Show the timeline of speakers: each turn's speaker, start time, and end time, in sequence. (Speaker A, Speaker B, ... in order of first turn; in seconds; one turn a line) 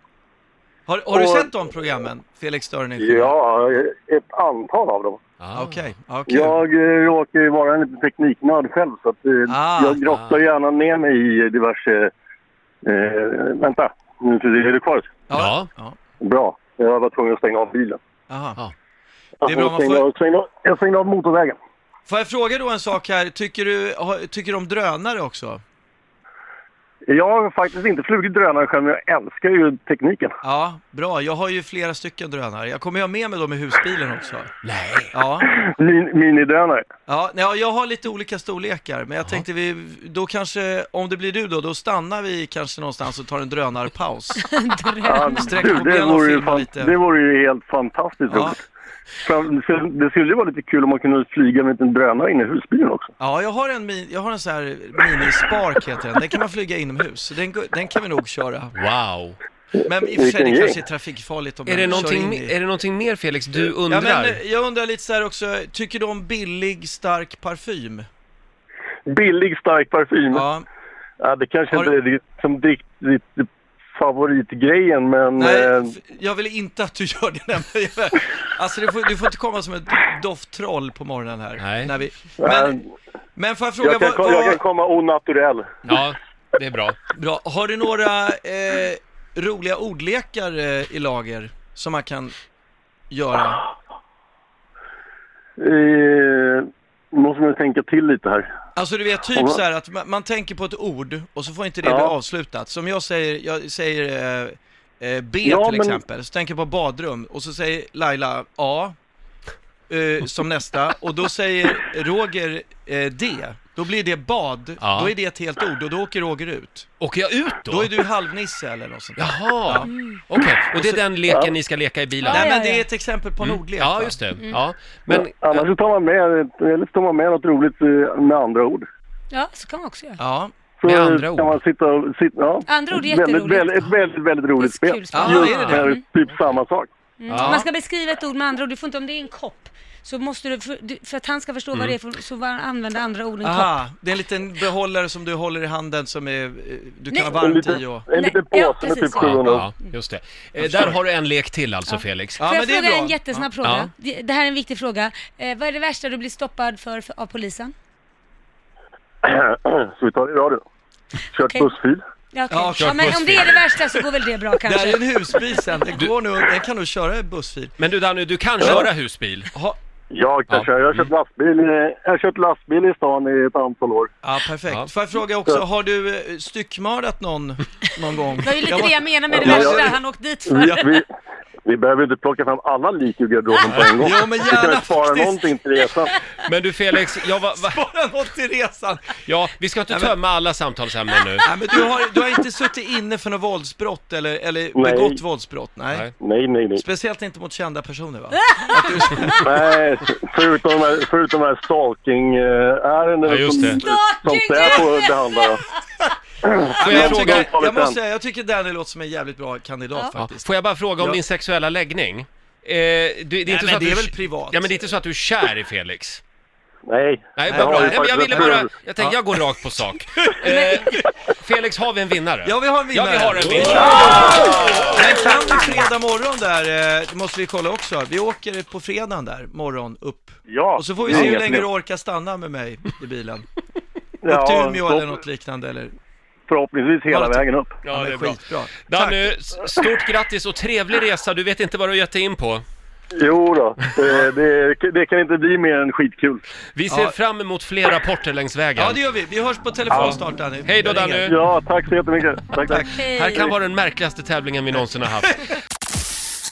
Speaker A: 0.9-3.3
Speaker B: 1.1-1.5
Speaker B: 3.0-5.2
Speaker C: 5.4-5.8
Speaker A: 5.5-6.6
Speaker B: 6.3-12.1
Speaker A: 9.5-10.0
Speaker C: 10.1-10.4
Speaker B: 12.8-15.1
Speaker A: 15.3-16.0
Speaker C: 15.3-15.7
Speaker B: 16.2-18.0
Speaker A: 18.3-18.6
Speaker B: 19.4-21.6
Speaker A: 19.4-20.1
Speaker A: 22.1-25.6
Speaker B: 27.1-30.4
Speaker A: 30.4-34.5
Speaker C: 34.6-35.2
Speaker A: 35.1-35.5
Speaker B: 35.5-36.9
Speaker A: 37.1-44.4
Speaker D: 44.4-45.6
Speaker B: 45.0-48.6
Speaker A: 45.3-47.0
Speaker A: 48.3-48.6
Speaker B: 49.2-53.1
Speaker A: 53.2-58.8
Speaker C: 58.8-59.4
Speaker B: 59.8-60.8
Speaker A: 59.9-62.6
Speaker C: 61.7-64.4
Speaker A: 63.6-68.1
Speaker B: 69.1-70.5
Speaker A: 70.3-70.7
Speaker B: 71.2-75.9
Speaker A: 75.4-82.8
Speaker C: 81.6-81.9
Speaker B: 82.4-82.8
Speaker A: 83.4-84.6
Speaker B: 83.8-85.7
Speaker C: 85.9-87.0
Speaker A: 87.1-92.3
Speaker A: 93.1-93.7
Speaker B: 95.6-98.5
Speaker A: 98.8-109.0
Speaker B: 101.8-102.1
Speaker B: 105.5-106.0
Speaker A: 109.9-116.9
Speaker C: 114.8-115.1
Speaker C: 117.0-118.0
Speaker A: 117.7-119.9
Speaker C: 119.2-122.5
Speaker D: 119.9-120.2
Speaker A: 120.7-121.0
Speaker D: 122.2-122.9
Speaker A: 122.3-124.2
Speaker C: 123.4-125.7
Speaker B: 125.1-128.8
Speaker D: 129.3-130.2
Speaker A: 130.2-130.5
Speaker B: 130.8-136.9
Speaker C: 130.8-131.6
Speaker D: 132.7-133.9
Speaker D: 134.6-136.0
Speaker A: 135.1-135.9
Speaker C: 135.3-135.7
Speaker D: 137.2-143.8
Speaker C: 137.3-137.7
Speaker A: 137.3-137.7
Speaker A: 143.4-148.1
Speaker B: 147.4-149.7
Speaker D: 148.1-149.9
Speaker C: 149.2-152.4
Speaker A: 150.6-151.0
Speaker D: 151.9-157.7
Speaker A: 152.4-153.5
Speaker C: 153.6-153.9
Speaker B: 159.2-160.6
Speaker B: 161.3-162.0
Speaker D: 161.5-161.7
Speaker D: 162.3-165.4
Speaker A: 162.5-163.7
Speaker C: 162.8-163.5
Speaker A: 164.6-167.8
Speaker C: 167.8-169.5
Speaker A: 168.6-168.9
Speaker A: 169.5-169.8
Speaker B: 170.1-174.1
Speaker C: 170.5-171.0
Speaker A: 174.2-180.0
Speaker D: 178.4-181.0
Speaker B: 179.3-179.9
Speaker B: 180.5-181.1
Speaker A: 180.6-180.8
Speaker B: 181.7-186.1
Speaker A: 183.9-185.6
Speaker C: 186.4-187.8
Speaker A: 187.6-189.2
Speaker C: 189.2-191.5
Speaker A: 189.9-190.2
Speaker A: 191.4-196.1
Speaker B: 194.7-195.2
Speaker B: 196.2-196.8
Speaker A: 196.8-199.7
Speaker D: 198.4-199.4
Speaker B: 199.4-205.6
Speaker C: 203.3-203.8
Speaker D: 203.5-205.8
Speaker B: 206.4-208.0
Speaker A: 206.8-211.2
Speaker C: 206.8-207.5
Speaker C: 210.2-216.2
Speaker A: 213.5-214.9
Speaker B: 216.9-218.7
Speaker C: 217.4-225.3
Speaker A: 217.5-219.4
Speaker A: 220.2-221.1
Speaker A: 222.4-233.5
Speaker B: 230.5-231.4
Speaker C: 231.1-231.7
Speaker B: 234.2-235.1
Speaker A: 234.3-235.9
Speaker B: 236.5-237.7
Speaker A: 237.1-239.3
Speaker C: 237.8-242.6
Speaker B: 243.2-246.4
Speaker C: 246.8-249.0
Speaker A: 246.9-247.2
Speaker A: 248.8-251.4
Speaker C: 249.9-251.3
Speaker B: 251.3-252.9
Speaker A: 252.6-253.5
Speaker D: 252.9-253.5
Speaker C: 253.0-255.5